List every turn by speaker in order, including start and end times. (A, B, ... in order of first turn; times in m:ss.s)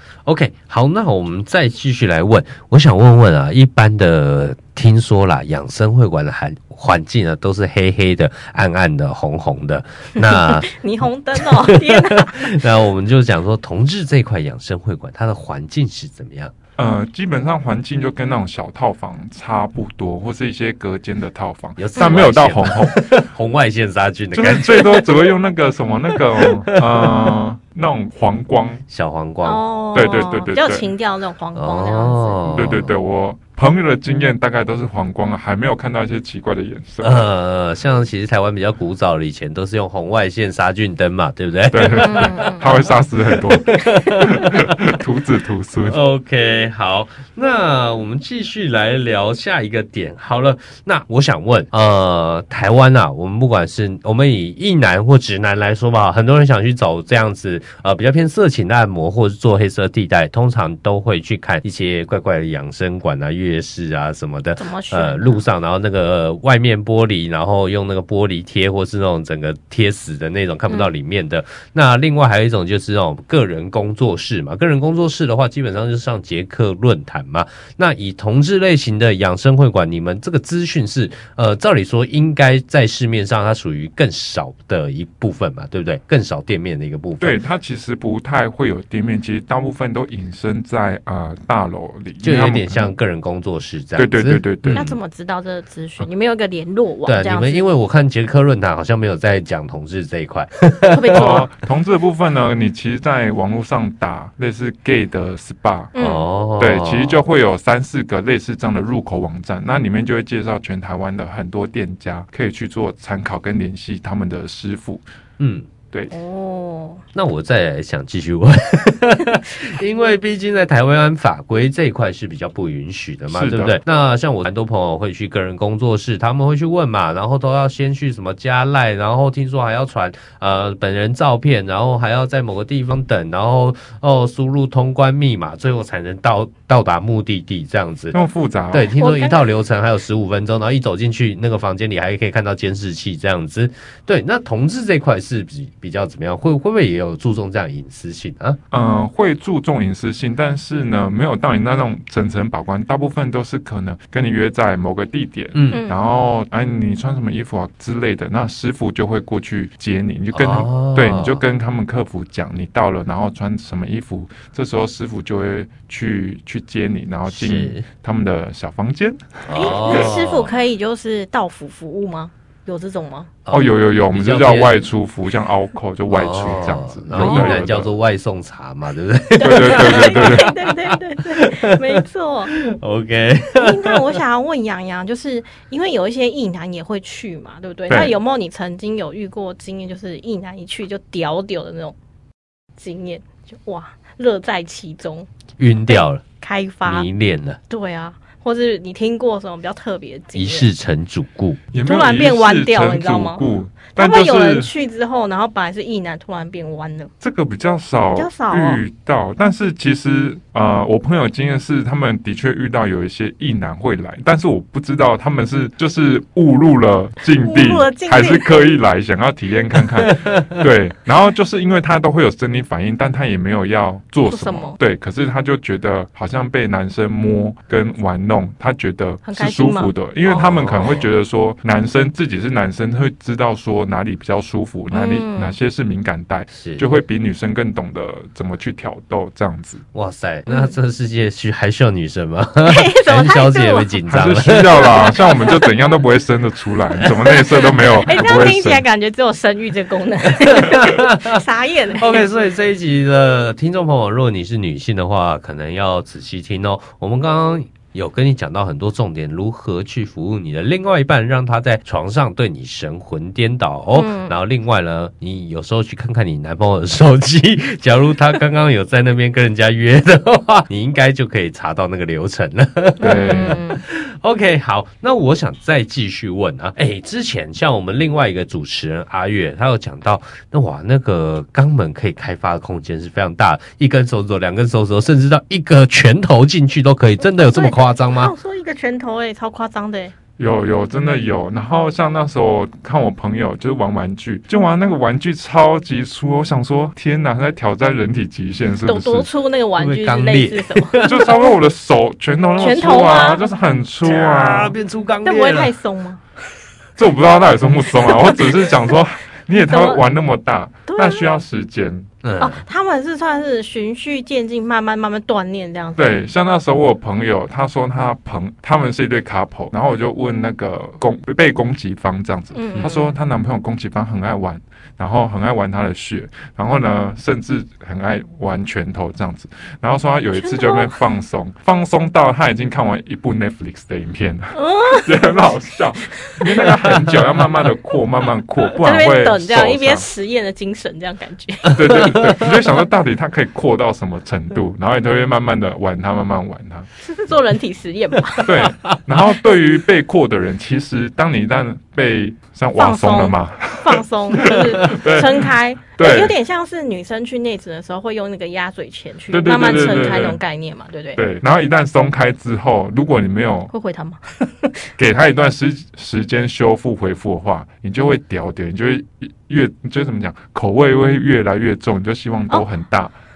0:00.2-0:10.7 A
0:10.2-0:12.6 B
0:11.3-0:16.5 A
0:16.8-0:23.1 C
0:21.8-0:25.3 A
0:24.3-0:28.8 C
0:26.1-0:27.3 A
0:28.9-0:29.6 A
0:29.4-0:32.5 B
0:29.9-0:30.9 C
0:31.5-0:32.9 A
0:32.5-0:37.2 C
0:37.0-0:42.8 A
0:41.7-0:46.0 C
0:42.0-0:42.6 B
0:43.3-0:44.9 A
0:45.8-1:27.4 A
1:04.6-1:05.4 B
1:27.2-1:32.9 C
1:32.2-1:35.0 A
1:34.0-1:34.9 C
1:34.7-1:37.6 B
1:37.0-1:41.4 A
1:40.9-1:41.4 B
1:41.1-1:45.9 C
1:45.9-1:46.2 B
1:46.0-1:47.2 A
1:46.6-1:55.0 C
1:55.4-1:55.7 A
1:56.1-1:57.0 B
1:57.1-2:18.2 A
2:03.3-2:03.8 C
2:18.1-2:18.9 C
2:18.7-2:28.6 A
2:18.9-2:19.4 B
2:28.7-2:50.2 C
2:35.5-2:35.8 A
2:35.7-2:36.0 B
2:40.3-2:41.4 A
2:47.3-2:47.8 A
2:49.4-2:50.5 A
2:49.5-2:53.3 B
2:53.4-2:54.9 A
2:53.5-2:57.9 C
2:56.1-3:04.1 A
2:57.2-2:57.6 B
2:59.4-3:02.5 B
2:59.4-3:00.5 C
3:03.6-3:12.0 B
3:07.9-3:08.2 C
3:12.8-3:15.3 B
3:15.6-3:16.2 A
3:15.9-3:17.1 B
3:16.8-3:17.6 A
3:17.7-3:20.7 B
3:20.3-3:21.6 A
3:21.7-3:24.7 C
3:21.8-3:27.1 B
3:27.2-3:59.8 C
3:28.2-3:28.8 B
3:37.4-3:38.7 B
3:40.0-3:40.6 A
3:44.2-3:44.8 B
3:49.2-3:50.4 B
3:50.3-3:51.1 A
3:54.9-3:55.6 B
3:56.5-3:56.9 A
3:59.9-4:05.1 A
4:00.5-4:00.7 B
4:02.6-4:04.0 B
4:04.1-4:08.8 C
4:04.7-4:05.7 B
4:07.3-4:12.3 B
4:10.3-4:11.4 A
4:12.0-4:48.3 A
4:23.9-4:24.4 B
4:33.0-4:33.8 B
4:33.0-4:33.6 C
4:47.3-4:50.1 B
4:50.4-4:59.3 C
4:58.8-5:01.3 B
4:59.8-5:01.3 A
5:01.0-5:04.7 C
5:02.6-5:03.4 B
5:04.0-5:05.7 A
5:05.2-5:06.2 B
5:07.0-5:12.1 C
5:07.8-5:08.9 B
5:09.5-5:10.0 B
5:10.9-5:11.3 B
5:12.2-5:12.6 A
5:12.4-5:16.2 B
5:16.0-5:40.0 C
5:22.6-5:23.1 B
5:30.4-5:30.9 B
5:34.5-5:35.4 B
5:36.3-5:36.7 B
5:38.8-5:41.8 B
5:41.7-5:42.5 A
5:41.7-5:46.9 C
5:47.0-5:48.7 B
5:48.4-5:56.4 C
5:52.8-6:01.2 B
5:59.3-6:00.4 C
6:01.1-6:03.7 C
6:03.7-6:04.9 B
6:05.0-6:13.1 C